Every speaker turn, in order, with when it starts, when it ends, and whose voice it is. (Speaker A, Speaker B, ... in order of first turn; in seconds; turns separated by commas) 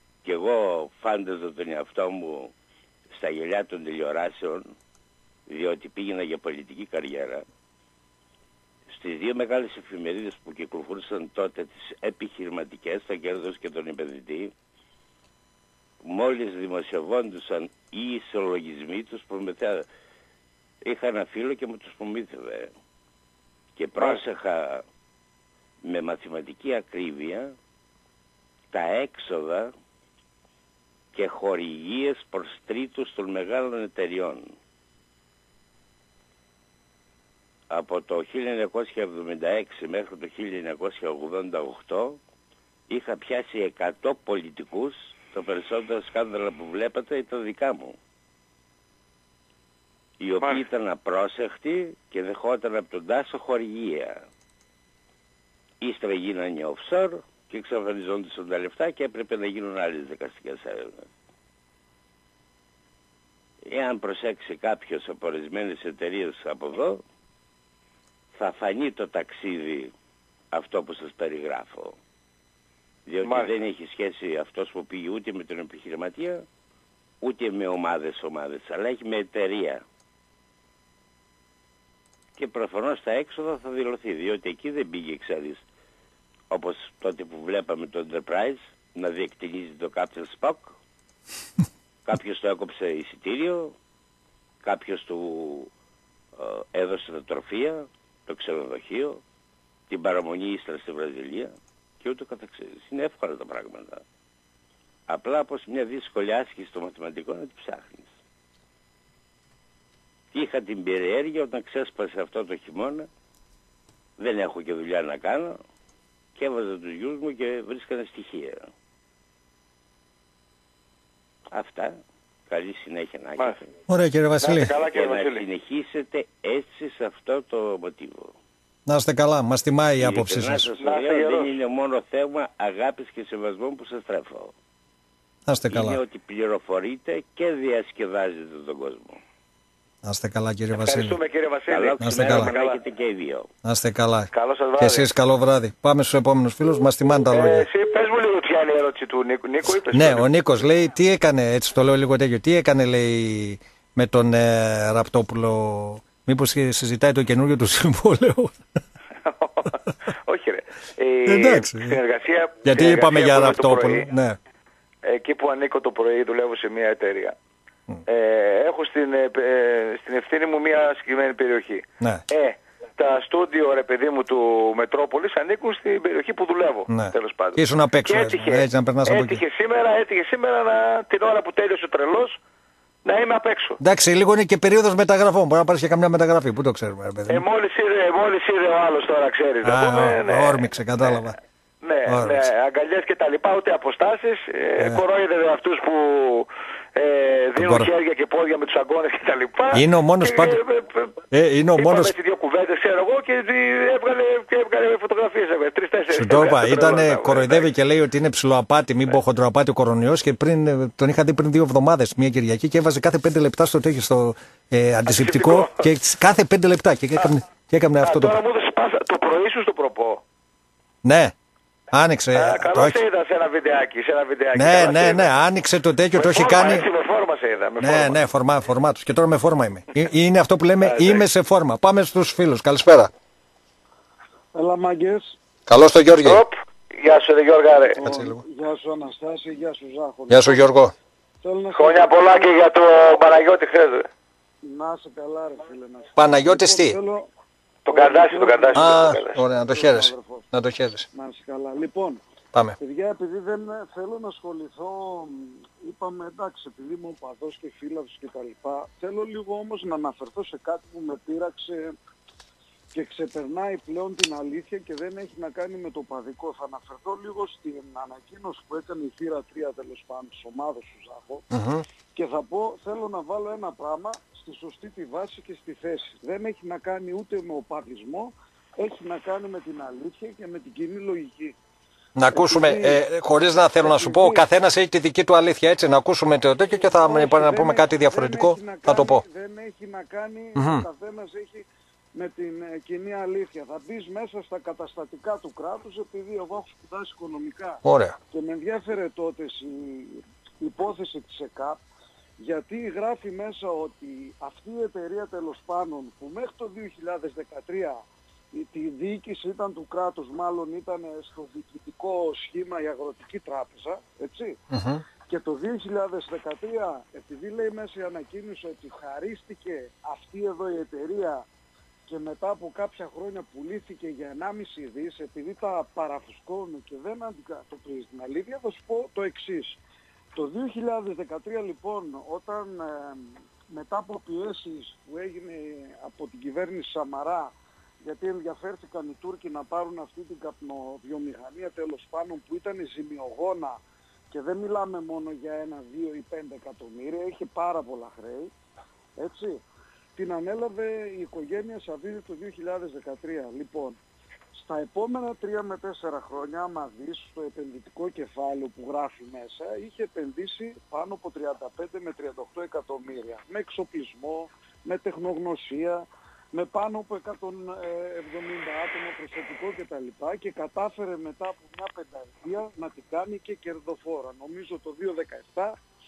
Speaker A: 0.2-2.5, Speaker A: 3.1-4.7, Speaker A: 5.5-7.5, Speaker A: 8.9-14.5, Speaker A: 16.0-19.9, Speaker A: 20.8-22.7, Speaker A: 23.8-24.8, Speaker B: 24.0-24.2, Speaker A: 25.9-27.6, Speaker A: 28.7-29.7, Speaker A: 31.1-34.5, Speaker A: 37.7-42.2, Speaker A: 42.9-48.0, Speaker A: 50.2-54.2, Speaker A: 55.8-61.1, Speaker A: 63.6-67.0, Speaker A: 68.3-69.9, Speaker A: 70.5-72.0, Speaker A: 73.1-76.5, Speaker B: 73.2-73.5, Speaker A: 77.2-79.8, Speaker A: 82.4-85.6, Speaker A: 86.5-90.8, Speaker A: 92.1-93.8, Speaker A: 94.6-95.7, Speaker A: 96.4-99.2, Speaker A: 99.9-104.0, Speaker A: 105.1-108.2, Speaker A: 110.3-113.1, Speaker A: 114.2-115.6, Speaker A: 116.4-118.7, Speaker A: 121.5-122.0, Speaker A: 122.5-123.7, Speaker C: 123.9-124.8, Speaker B: 124.4-125.5, Speaker A: 124.6-128.3, Speaker C: 128.9-130.7, Speaker A: 130.0-134.5, Speaker B: 130.8-131.6, Speaker C: 135.5-136.0, Speaker A: 135.7-139.2, Speaker C: 140.0-141.2, Speaker B: 140.7-142.8, Speaker A: 141.7-143.5, Speaker C: 142.0-142.5, Speaker C: 143.6-147.7, Speaker B: 144.3-145.1, Speaker B: 147.3-150.3, Speaker C: 149.9-158.6, Speaker B: 159.3-164.1, Speaker C: 161.3-162.0, Speaker C: 162.7-164.4, Speaker B: 165.0-167.3, Speaker B: 168.1-182.4, Speaker C: 176.9-179.4, Speaker B: 183.1-183.8, Speaker C: 183.8-187.4, Speaker B: 187.3-191.2, Speaker C: 189.6-191.4, Speaker B: 191.8-201.2, Speaker C: 192.1-192.5, Speaker C: 197.6-197.9, Speaker C: 199.7-200.6, Speaker C: 201.3-202.1, Speaker B: 201.8-207.7, Speaker C: 206.1-218.4, Speaker B: 215.1-215.9, Speaker B: 218.0-220.2, Speaker C: 221.0-221.3, Speaker C: 221.9-223.0, Speaker B: 222.3-225.3, Speaker C: 224.6-226.9, Speaker B: 226.2-228.2, Speaker C: 227.8-233.1, Speaker B: 230.8-231.3, Speaker D: 234.5-235.4, Speaker C: 235.7-236.4, Speaker B: 236.2-238.0, Speaker D: 237.9-240.7, Speaker C: 238.0-238.4, Speaker C: 240.3-240.9, Speaker D: 241.4-242.5, Speaker B: 241.8-244.1, Speaker D: 244.6-247.3, Speaker C: 246.2-247.0, Speaker B: 247.9-249.4, Speaker D: 247.9-250.5, Speaker C: 248.8-251.1, Speaker D: 251.1-252.2, Speaker D: 252.8-262.0, Speaker D: 262.9-271.4, Speaker C: 271.5-271.8, Speaker D: 272.1-281.6, Speaker C: 282.2-289.2, Speaker D: 282.3-283.0, Speaker D: 283.8-284.4, Speaker D: 286.8-297.8, Speaker C: 290.6-290.9, Speaker C: 297.9-298.2, Speaker D: 298.3-301.8, Speaker D: 302.4-314.6, Speaker C: 314.7-315.0, Speaker D: 315.3-321.4, Speaker D: 322.1-329.8, Speaker D: 330.4-343.8, Speaker D: 344.3-348.5, Speaker D: 349.2-349.6, Speaker D: 350.2-354.0, Speaker D: 354.5-375.8